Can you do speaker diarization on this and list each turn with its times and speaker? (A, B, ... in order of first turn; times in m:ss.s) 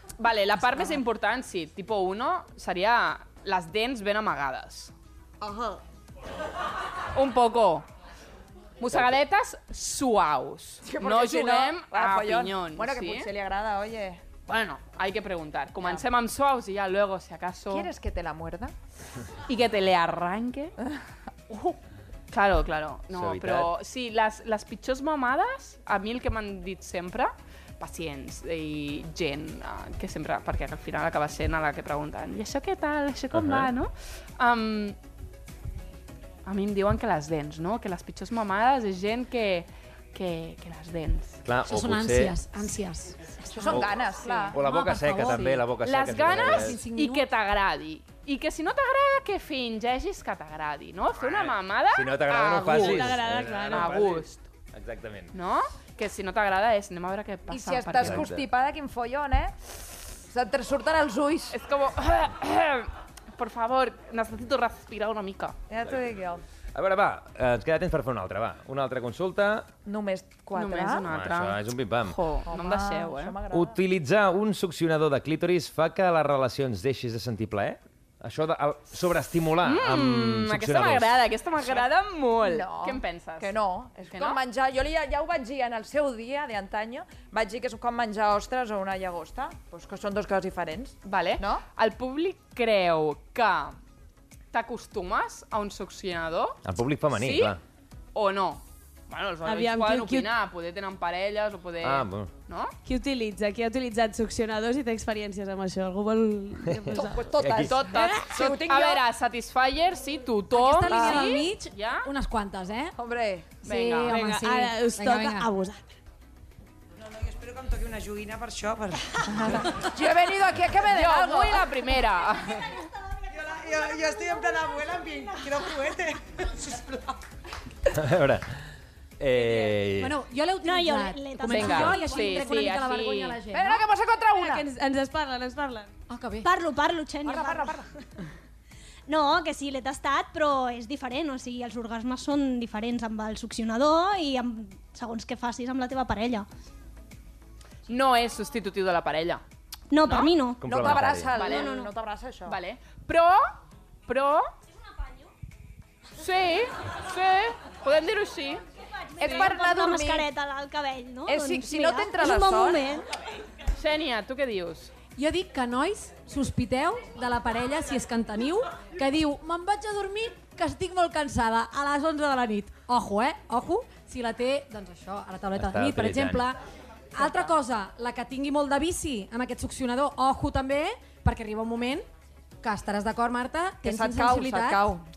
0:00.2-0:04.9 A
0:05.4-0:05.8 B
0:07.1-0:07.8 A
0:08.8-0:13.3 A
0:10.8-0:14.2 B
0:14.5-0:17.9 A
0:17.7-0:18.7 B
0:19.5-0:20.7 A
0:21.5-0:21.8 B
0:22.3-0:35.0 A
0:23.1-0:23.7 C
0:33.3-0:33.7 C
0:36.4-0:41.4 A
0:41.4-0:42.3 C
0:41.7-0:43.8 D
0:43.5-0:44.6 B
0:43.7-0:43.9 C
0:44.2-0:44.6 A
0:44.5-0:46.8 C
0:44.5-0:45.6 D
0:45.7-0:54.4 A
0:46.3-0:47.2 D
0:51.2-0:55.4 C
0:52.6-0:54.1 E
0:55.3-0:58.2 A
0:57.5-0:59.5 B
0:58.0-0:58.5 C
1:00.3-1:01.6 B
1:01.5-1:05.6 A
1:05.7-1:06.4 B
1:06.8-1:09.7 C
1:09.9-1:11.1 B
1:10.6-1:13.4 A
1:11.1-1:12.2 C
1:12.5-1:13.8 B
1:13.5-1:21.2 C
1:19.6-1:23.5 A
1:22.4-1:31.6 B
1:24.1-1:24.4 A
1:31.0-1:33.8 A
1:34.5-1:36.6 A
1:36.6-1:37.6 C
1:37.1-1:37.6 A
1:38.2-1:42.7 A
1:39.4-1:40.3 E
1:41.8-1:42.3 C
1:42.8-1:47.3 E
1:46.9-1:47.8 C
1:46.9-1:49.0 B
1:47.7-1:52.1 A
1:48.0-1:48.3 E
1:50.5-1:53.0 D
1:50.9-1:51.5 B
1:53.0-1:53.6 B
1:53.6-1:54.2 A
1:53.6-1:55.5 D
1:54.1-1:55.8 E
1:57.0-1:59.6 F
1:59.6-2:02.0 B
2:00.9-2:02.7 A
2:03.3-2:07.2 F
2:07.9-2:08.5 C
2:09.2-2:10.2 C
2:10.0-2:13.8 D
2:10.6-2:12.5 G
2:11.5-2:13.4 A
2:13.5-2:14.7 B
2:14.3-2:15.9 E
2:16.1-2:16.5 D
2:16.4-2:17.8 G
2:17.2-2:17.9 B
2:19.1-2:26.5 G
2:27.9-2:29.4 A
2:29.9-2:31.9 G
2:30.0-2:30.3 A
2:30.6-2:31.3 C
2:30.6-2:32.6 B
2:31.3-2:31.8 A
2:32.5-2:34.5 A
2:36.2-2:38.6 A
2:39.2-2:43.1 G
2:39.2-2:40.3 B
2:41.3-2:43.0 B
2:43.8-2:44.9 A
2:45.2-2:56.6 D
2:55.6-2:56.5 C
2:57.1-3:02.0 D
3:02.6-3:04.8 D
3:03.8-3:05.0 B